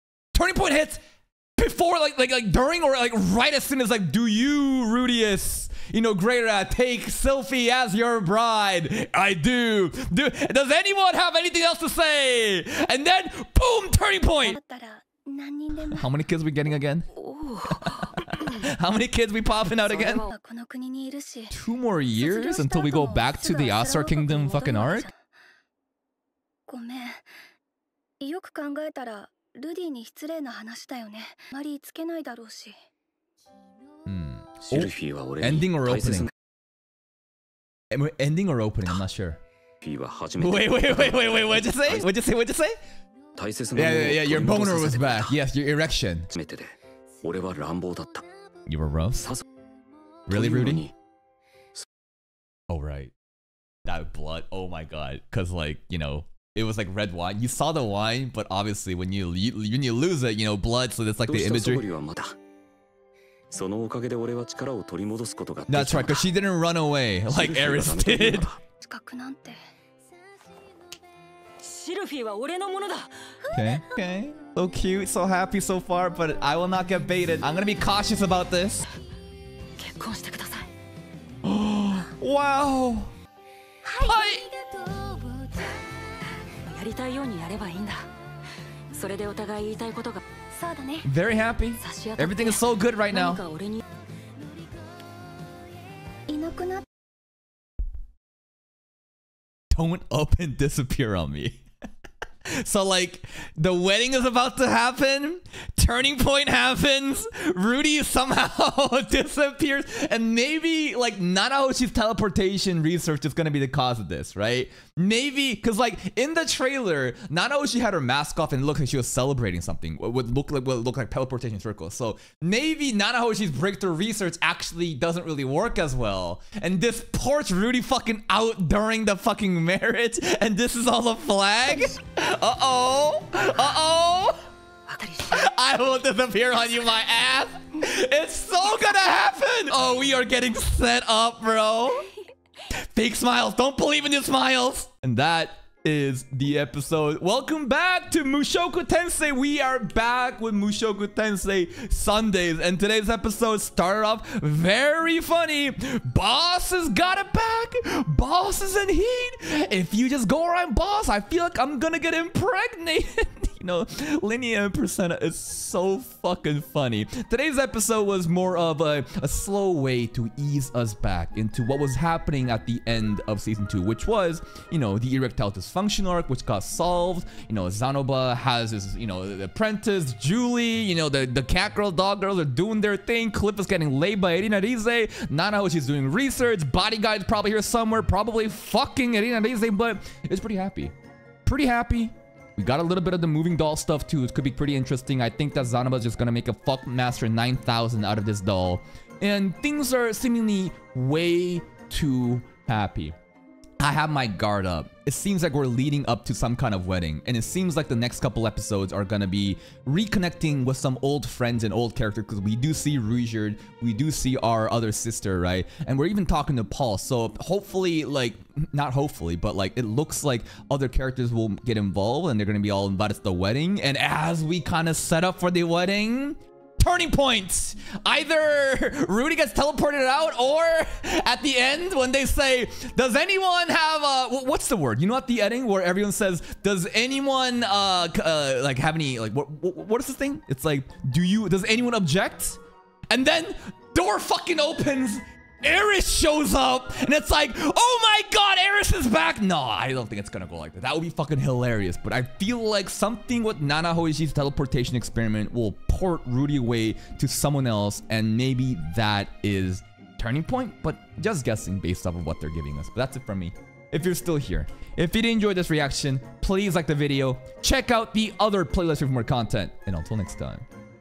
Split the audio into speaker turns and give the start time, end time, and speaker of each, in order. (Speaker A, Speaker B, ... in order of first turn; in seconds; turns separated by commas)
Speaker A: 0.3-1.0, Speaker A: 1.6-14.6, Speaker B: 14.4-16.1, Speaker A: 15.9-17.1, Speaker C: 17.2-18.1, Speaker A: 17.7-20.3, Speaker B: 19.9-21.5, Speaker C: 20.0-20.3, Speaker A: 21.5-25.1, Speaker B: 22.1-25.3, Speaker B: 26.7-27.4, Speaker B: 28.2-32.8, Speaker A: 34.1-36.3, Speaker D: 34.6-36.3, Speaker A: 37.9-39.4, Speaker D: 39.8-42.1, Speaker A: 40.4-42.8, Speaker D: 43.4-45.4, Speaker A: 43.8-46.3, Speaker D: 46.3-48.3, Speaker A: 48.7-49.3, Speaker D: 49.2-49.5, Speaker A: 50.3-50.9, Speaker D: 50.3-50.9, Speaker A: 52.7-53.1, Speaker A: 53.9-61.9, Speaker D: 61.3-62.4, Speaker D: 63.5-66.3, Speaker A: 65.7-68.5, Speaker D: 67.3-68.6, Speaker B: 68.8-69.6, Speaker C: 71.6-73.1, Speaker B: 73.5-74.0, Speaker A: 73.5-78.8, Speaker C: 79.8-80.7, Speaker A: 81.4-83.1, Speaker B: 83.8-85.7, Speaker A: 84.0-84.5, Speaker C: 86.5-88.1, Speaker C: 88.9-90.3, Speaker B: 90.5-91.1, Speaker A: 91.0-93.4, Speaker C: 91.8-93.8, Speaker B: 96.3-96.9, Speaker A: 99.7-101.6, Speaker A: 102.5-134.5, Speaker C: 134.9-135.5, Speaker A: 135.3-142.1, Speaker A: 142.7-190.9, Speaker A: 191.5-203.2, Speaker A: 203.8-242.6, Speaker A: 243.1-270.7